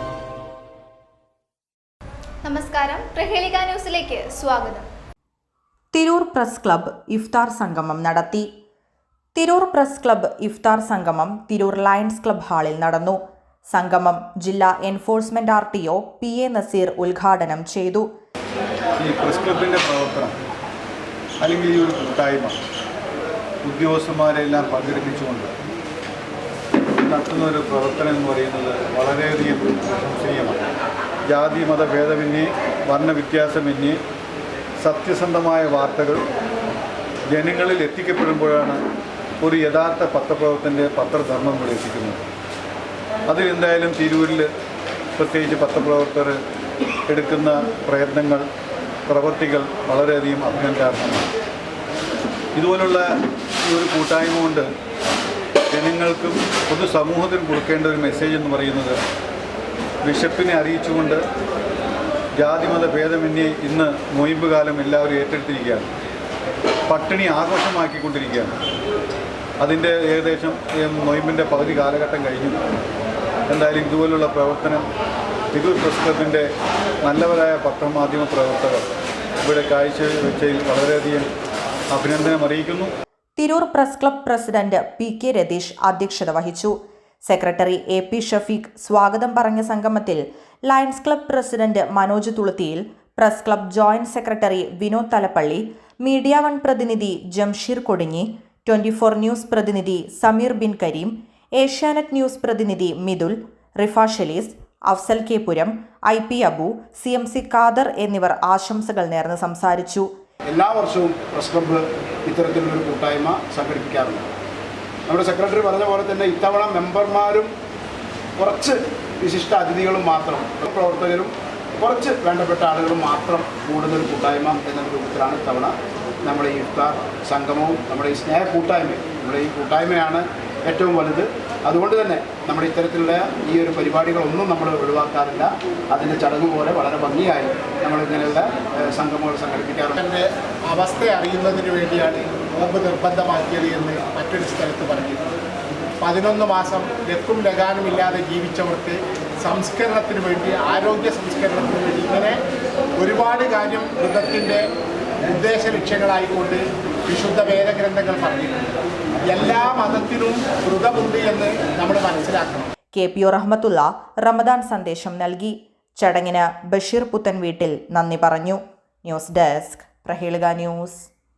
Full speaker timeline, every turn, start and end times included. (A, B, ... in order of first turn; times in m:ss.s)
0:02.4-0:04.8 A
0:05.9-0:08.5 B
0:09.3-0:13.2 B
0:13.7-0:18.1 B
0:19.0-0:20.3 C
0:21.4-0:22.6 C
0:23.6-0:25.5 C
0:27.0-0:30.6 C
0:31.3-0:34.0 C
0:34.8-0:36.2 C
0:37.3-0:38.8 C
0:39.4-0:42.2 C
0:43.3-0:44.5 C
0:45.2-0:46.4 C
0:47.1-0:48.4 C
0:49.1-0:51.3 C
0:52.6-0:53.1 C
0:53.6-0:54.7 C
0:55.7-0:59.0 C
1:00.0-1:01.2 C
1:02.4-1:05.9 C
1:06.9-1:08.6 C
1:09.6-1:12.6 C
1:13.5-1:14.9 C
1:15.5-1:16.5 C
1:17.0-1:18.8 C
1:19.4-1:21.3 C
1:21.9-1:22.9 C
1:23.4-1:50.1 B
1:50.5-1:54.3 D
1:55.1-1:57.5 D
1:58.4-2:20.0 D
2:20.0-2:25.2 E
2:26.0-2:32.4 E
2:33.0-2:34.6 E
2:35.2-2:38.6 E
2:39.2-2:42.7 E
2:42.9-2:51.1 B